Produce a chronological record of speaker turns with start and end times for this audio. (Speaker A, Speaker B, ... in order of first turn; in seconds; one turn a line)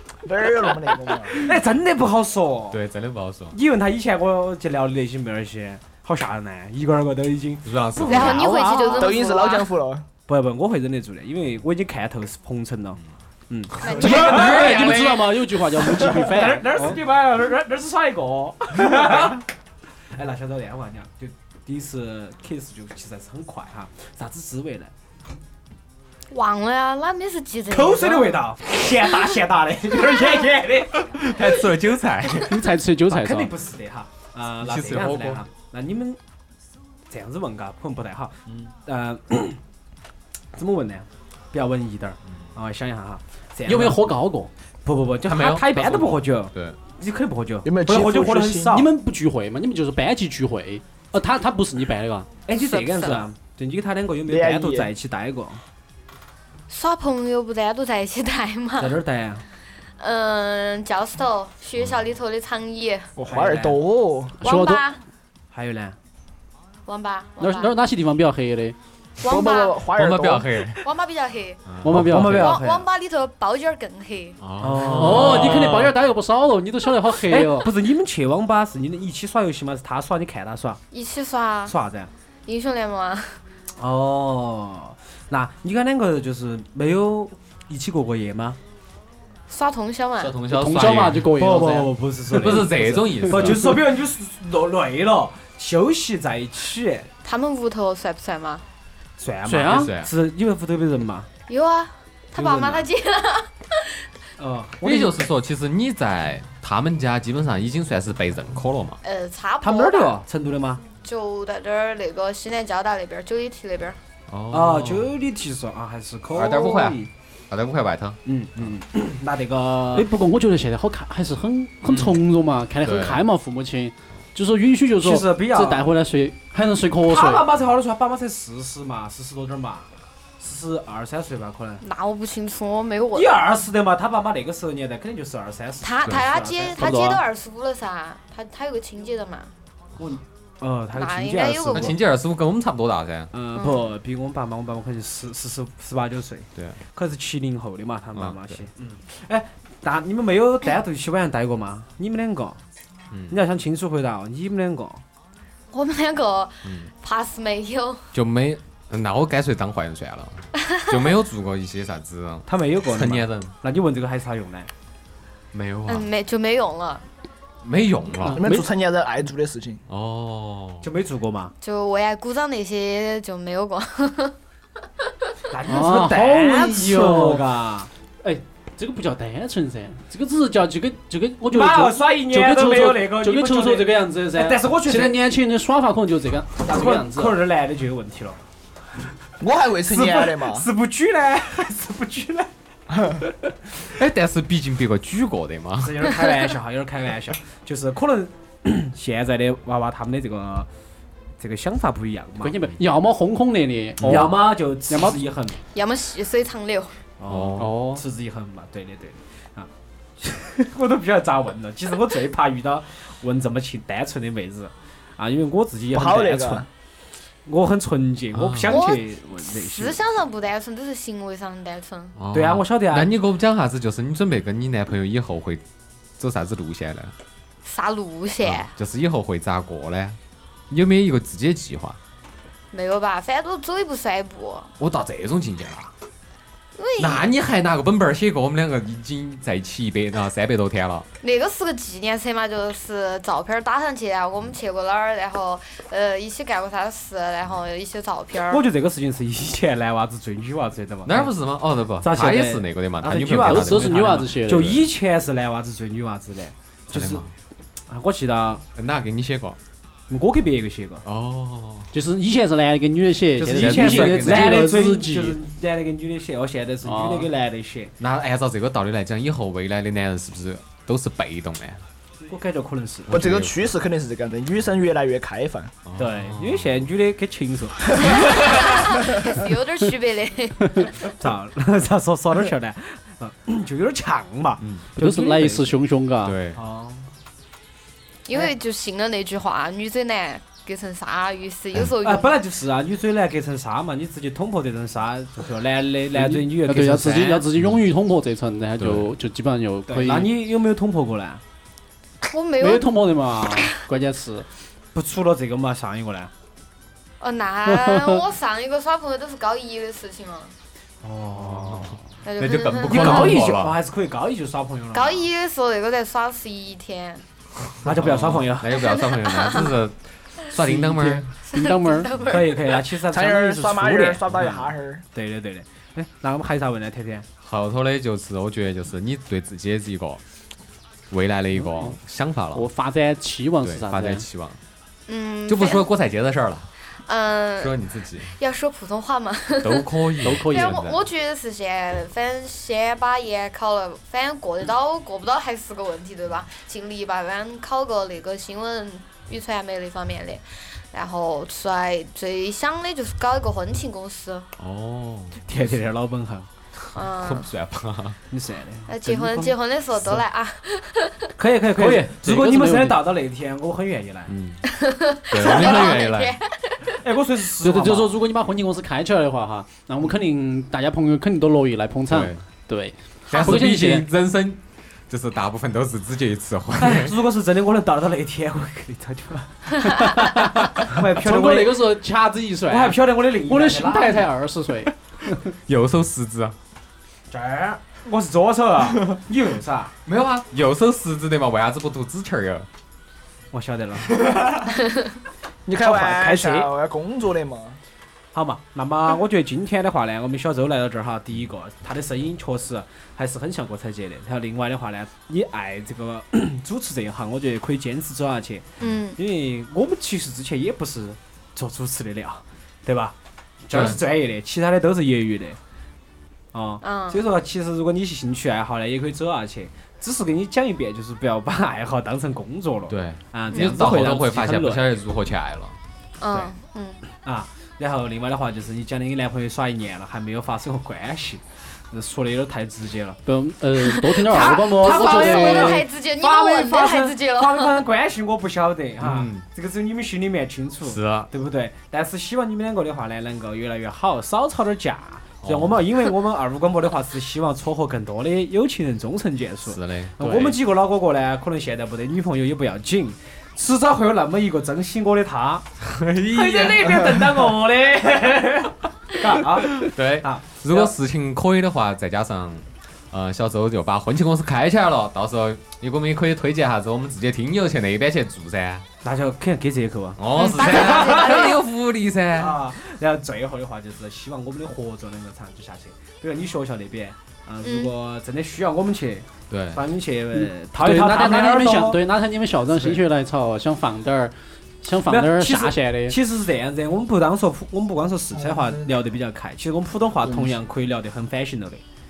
Speaker A: 0.2-1.5
Speaker B: 1.3-2.8
Speaker C: 2.7-3.5
Speaker B: 3.5-8.9
Speaker C: 7.6-8.6
Speaker D: 8.1-9.7
Speaker A: 8.9-10.0
Speaker B: 10.3-14.9
Speaker D: 13.8-14.4
Speaker C: 13.8-15.4
Speaker E: 13.9-17.0
Speaker B: 16.0-19.4
Speaker B: 20.1-24.9
Speaker D: 26.3-28.4
Speaker B: 27.7-31.3
Speaker C: 31.1-32.6
Speaker E: 32.5-33.5
Speaker B: 33.1-36.2
Speaker C: 34.6-35.4
Speaker B: 37.1-39.6
Speaker B: 40.5-44.0
Speaker E: 43.7-44.5
Speaker B: 44.8-48.9
Speaker C: 45.2-46.8
Speaker A: 47.6-48.7
Speaker E: 48.7-52.3
Speaker B: 52.5-55.6
Speaker D: 52.5-53.2
Speaker A: 54.3-54.9
Speaker D: 56.7-59.0
Speaker B: 58.8-59.4
Speaker D: 60.0-63.1
Speaker A: 63.2-64.4
Speaker B: 63.3-63.8
Speaker E: 64.4-64.8
Speaker D: 64.4-65.0
Speaker B: 65.5-66.0
Speaker D: 66.8-67.7
Speaker E: 67.4-68.8
Speaker D: 69.2-69.8
Speaker A: 69.2-70.7
Speaker C: 70.0-70.9
Speaker D: 70.8-71.6
Speaker C: 71.7-72.4
Speaker E: 71.8-72.5
Speaker B: 71.9-72.8
Speaker D: 72.3-74.4
Speaker C: 74.4-75.7
Speaker B: 74.6-75.9
Speaker E: 74.9-77.7
Speaker B: 77.3-80.8
Speaker D: 80.9-81.8
Speaker B: 81.7-82.1
Speaker D: 82.5-83.4
Speaker B: 83.8-88.6
Speaker D: 89.5-90.4
Speaker C: 90.2-91.3
Speaker E: 90.5-91.9
Speaker B: 91.2-97.1
Speaker C: 92.3-93.8
Speaker E: 93.2-93.7
Speaker D: 97.2-98.6
Speaker B: 99.2-101.3
Speaker E: 99.5-99.9
Speaker C: 99.7-100.1
Speaker D: 101.5-104.0
Speaker B: 102.3-102.9
Speaker B: 104.4-105.2
Speaker C: 104.8-109.0
Speaker D: 109.0-110.2
Speaker B: 109.6-110.8
Speaker D: 111.0-114.0
Speaker C: 114.3-115.1
Speaker B: 114.5-117.1
Speaker C: 116.3-118.8
Speaker B: 118.2-120.1
Speaker E: 119.9-127.4
Speaker C: 121.8-122.1
Speaker C: 122.8-123.2
Speaker B: 125.0-125.9
Speaker B: 127.1-131.8
Speaker D: 131.8-133.3
Speaker B: 133.1-136.9
Speaker D: 135.8-139.5
Speaker E: 136.8-137.2
Speaker B: 140.0-141.9
Speaker D: 140.9-141.9
Speaker C: 141.7-143.3
Speaker B: 143.3-152.6
Speaker D: 143.5-143.9
Speaker C: 148.1-148.6
Speaker C: 153.1-153.4
Speaker B: 153.3-155.0
Speaker D: 155.7-158.1
Speaker C: 158.1-163.5
Speaker D: 160.7-161.0
Speaker B: 162.5-164.7
Speaker C: 165.5-166.1
Speaker D: 165.9-167.0
Speaker C: 167.6-168.4
Speaker E: 168.2-168.7
Speaker A: 168.3-169.8
Speaker C: 169.9-170.8
Speaker B: 170.8-171.5
Speaker D: 171.6-174.3
Speaker B: 175.5-177.9
Speaker E: 175.7-177.4
Speaker E: 178.2-187.4
Speaker B: 181.5-185.2
Speaker B: 186.6-188.4
Speaker A: 189.4-190.7
Speaker B: 189.9-192.5
Speaker C: 193.8-196.1
Speaker B: 195.8-200.7
Speaker B: 201.4-202.5
Speaker E: 202.4-205.2
Speaker C: 204.0-204.3
Speaker B: 204.0-205.6
Speaker D: 205.7-207.0
Speaker B: 207.2-209.7
Speaker C: 207.3-207.7
Speaker E: 207.6-208.0
Speaker B: 210.2-216.7
Speaker A: 215.9-216.7
Speaker B: 217.4-220.0
Speaker C: 218.3-218.8
Speaker D: 218.7-222.1
Speaker C: 222.2-225.6
Speaker B: 222.3-223.1
Speaker C: 226.2-227.1
Speaker D: 227.6-228.7
Speaker C: 228.4-230.2
Speaker C: 230.7-232.0
Speaker D: 232.7-234.7
Speaker C: 234.8-235.9
Speaker D: 236.8-237.3
Speaker C: 237.0-241.1
Speaker D: 241.2-248.6
Speaker B: 248.5-251.3
Speaker C: 251.0-254.7
Speaker B: 252.0-257.2
Speaker E: 253.4-254.8
Speaker C: 256.9-257.3
Speaker B: 257.9-258.6
Speaker C: 258.7-259.6
Speaker B: 260.1-261.0
Speaker C: 261.0-261.9
Speaker E: 261.9-265.4
Speaker B: 263.4-267.9
Speaker C: 263.5-264.7
Speaker E: 266.8-267.3
Speaker C: 268.0-271.8
Speaker B: 272.2-273.2
Speaker C: 273.1-273.7
Speaker A: 273.1-275.7
Speaker C: 275.8-276.9
Speaker B: 276.0-278.9
Speaker D: 278.0-281.1
Speaker B: 281.2-285.8
Speaker E: 285.0-286.4
Speaker C: 286.2-286.6
Speaker B: 286.5-287.1
Speaker D: 288.3-292.4
Speaker B: 292.0-297.4
Speaker E: 296.1-300.3
Speaker C: 297.6-297.8
Speaker C: 298.8-299.1
Speaker B: 299.9-301.4
Speaker D: 302.2-302.9
Speaker E: 302.6-304.5
Speaker B: 304.9-306.3
Speaker D: 307.2-310.5
Speaker E: 307.7-308.2
Speaker B: 311.0-312.0
Speaker C: 311.3-313.8
Speaker D: 312.2-313.4
Speaker B: 312.8-315.3
Speaker D: 314.9-317.2
Speaker C: 317.6-321.3
Speaker B: 317.8-318.9
Speaker D: 318.8-319.7
Speaker E: 320.7-322.1
Speaker D: 321.4-322.8
Speaker B: 322.3-327.3
Speaker A: 323.0-325.0
Speaker C: 327.4-330.2
Speaker C: 331.1-332.7
Speaker E: 331.6-331.9
Speaker E: 332.5-334.2
Speaker C: 333.6-334.6
Speaker D: 335.1-335.9
Speaker C: 335.5-336.7
Speaker D: 337.1-337.8
Speaker C: 337.6-338.4
Speaker D: 338.3-354.5
Speaker C: 339.6-341.0
Speaker E: 340.2-340.8
Speaker C: 354.6-355.4
Speaker B: 355.4-356.5
Speaker D: 356.9-357.5
Speaker C: 357.2-358.2
Speaker B: 358.3-359.5
Speaker D: 358.9-361.3
Speaker B: 361.4-364.3
Speaker E: 361.8-363.0
Speaker C: 364.3-364.6
Speaker D: 364.7-367.0
Speaker C: 365.3-366.4
Speaker B: 367.0-368.2
Speaker E: 367.6-374.1
Speaker C: 372.1-372.4
Speaker C: 373.3-377.2
Speaker B: 376.8-379.7
Speaker E: 379.9-385.4
Speaker B: 380.7-381.8
Speaker B: 382.7-384.3
Speaker C: 385.7-386.6
Speaker B: 387.3-389.9
Speaker C: 390.1-392.7
Speaker B: 393.5-394.3
Speaker A: 395.6-397.8
Speaker B: 395.8-396.7
Speaker B: 398.3-413.1
Speaker D: 408.8-409.2
Speaker B: 413.6-415.6
Speaker C: 413.7-414.0
Speaker B: 416.5-424.8
Speaker D: 416.8-417.2
Speaker C: 422.9-425.8
Speaker D: 423.5-423.8
Speaker D: 426.2-427.0
Speaker B: 427.2-433.2
Speaker E: 433.2-435.8
Speaker D: 434.0-437.8
Speaker B: 434.3-455.6
Speaker C: 439.0-439.4
Speaker C: 440.8-441.3
Speaker C: 445.4-445.8
Speaker C: 449.6-450.6
Speaker C: 455.8-457.3
Speaker B: 456.2-460.9
Speaker C: 459.7-468.8
Speaker B: 469.0-471.6
Speaker C: 470.2-472.6
Speaker D: 470.3-471.6
Speaker B: 472.4-482.0
Speaker D: 477.6-477.9
Speaker C: 479.5-479.8
Speaker E: 480.4-486.2
Speaker B: 482.7-483.0
Speaker B: 485.1-491.8